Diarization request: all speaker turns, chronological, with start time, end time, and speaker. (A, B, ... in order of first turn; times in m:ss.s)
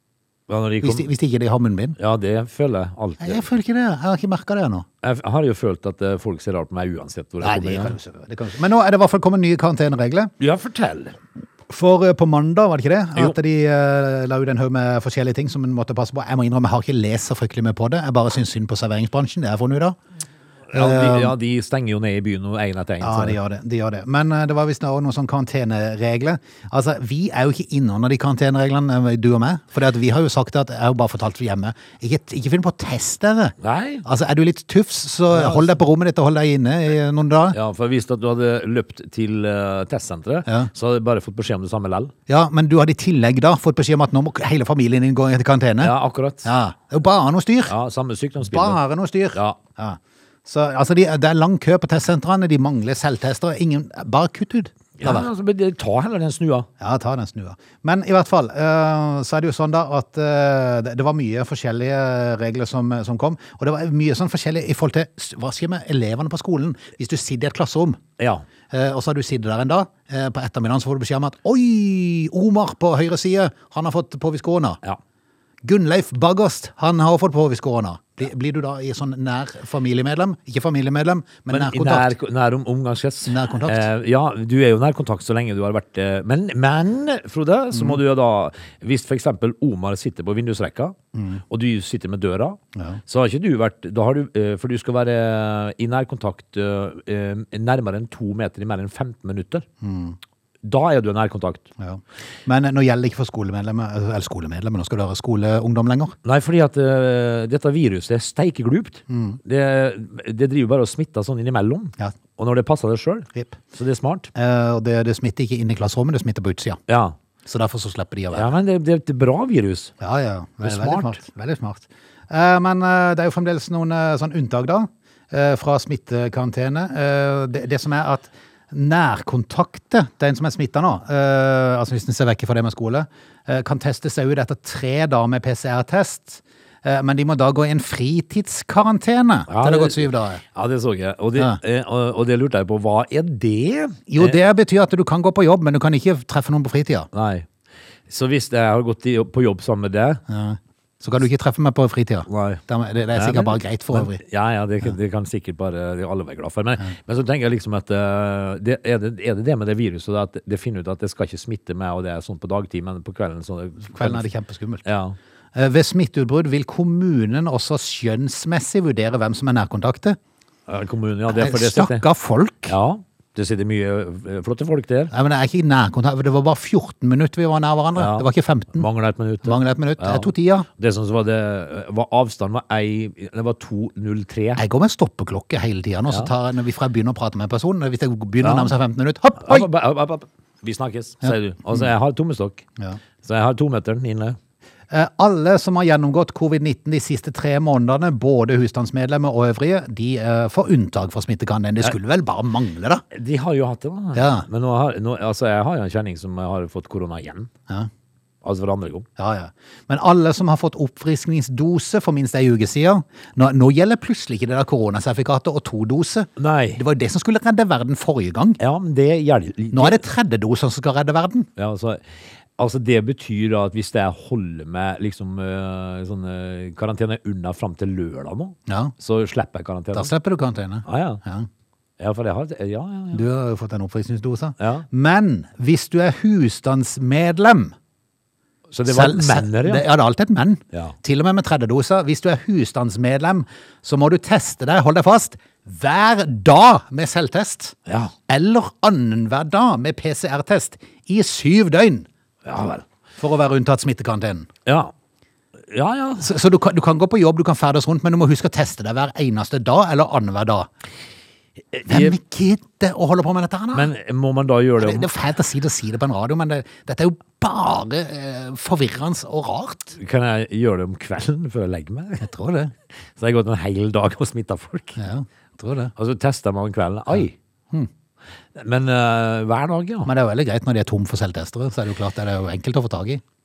0:00.5-0:01.1 A
0:00.8-0:02.0 B
0:02.0-0:03.5 A
0:03.2-0:04.9 B
0:05.0-0:08.0 A
0:07.4-0:10.3 B
0:10.4-0:11.2 A
0:11.7-0:20.0 B
0:20.7-0:23.4 A
0:20.7-0:21.4 B
0:23.0-0:37.6 B
0:33.6-0:34.0 A
0:35.3-0:35.8 A
0:37.5-0:42.1 A
0:42.3-0:47.7 B
0:45.8-0:46.5 A
0:47.7-0:48.8 A
0:48.4-0:55.3 B
0:55.0-0:56.7 A
0:56.8-1:08.0 B
1:08.2-1:08.4 A
1:08.7-1:14.8 B
1:15.6-1:22.1 B
1:21.5-1:31.0 A
1:23.3-1:23.9 B
1:27.7-1:28.0 B
1:31.1-1:31.4 B
1:31.5-1:39.7 A
1:32.8-1:33.0 B
1:39.8-1:40.2 B
1:40.6-1:41.7 A
1:41.8-1:46.2 B
1:46.2-1:54.3 A
1:49.1-1:49.4 B
1:54.4-1:56.8 B
1:56.9-1:57.2 A
1:57.4-1:58.5 B
1:58.3-1:59.9 A
2:00.0-2:20.4 B
2:00.6-2:01.2 A
2:19.5-2:24.4 A
2:24.1-2:27.1 B
2:27.1-2:27.5 A
2:28.1-2:30.2 A
2:30.3-2:34.2 B
2:32.3-2:32.6 A
2:33.2-2:44.3 A
2:43.9-2:44.8 B
2:44.8-2:45.2 A
2:45.6-2:50.2 B
2:50.7-2:52.0 A
2:51.3-2:52.8 B
2:52.7-2:55.1 A
2:55.1-2:58.9 B
2:58.0-3:04.6 A
2:59.4-3:00.7 B
3:04.6-3:09.7 B
3:08.4-3:08.8 A
3:09.4-3:12.7 A
3:11.2-3:11.9 B
3:13.2-3:14.4 A
3:14.9-3:23.0 B
3:23.1-3:27.5 A
3:24.2-3:24.5 B
3:28.4-3:29.1 A
3:29.2-3:38.6 B
3:36.4-3:36.8 A
3:38.6-3:40.0 A
3:39.7-3:41.5 B
3:41.6-3:42.0 A
3:42.6-3:50.1 A
3:48.7-3:48.9 B
3:49.9-3:51.5 B
3:50.9-3:51.2 A
3:52.0-3:53.2 A
3:53.1-3:57.8 B
3:54.6-3:54.9 A
3:58.7-3:59.8 A
3:58.9-4:07.8 B
4:07.9-4:08.1 A
4:08.3-4:12.1 B
4:12.4-4:12.8 A
4:13.2-4:14.5 B
4:14.7-4:14.9 A
4:15.7-4:16.3 A
4:16.2-4:20.7 B
4:21.7-4:22.2 A
4:21.9-4:23.9 B
4:23.7-4:25.1 A
4:24.8-4:30.0 B
4:30.0-4:32.3 A
4:32.2-4:32.7 B
4:33.2-4:35.0 A
4:35.0-4:35.9 B
4:36.0-4:37.4 A
4:38.6-4:40.1 A
4:40.0-4:43.2 B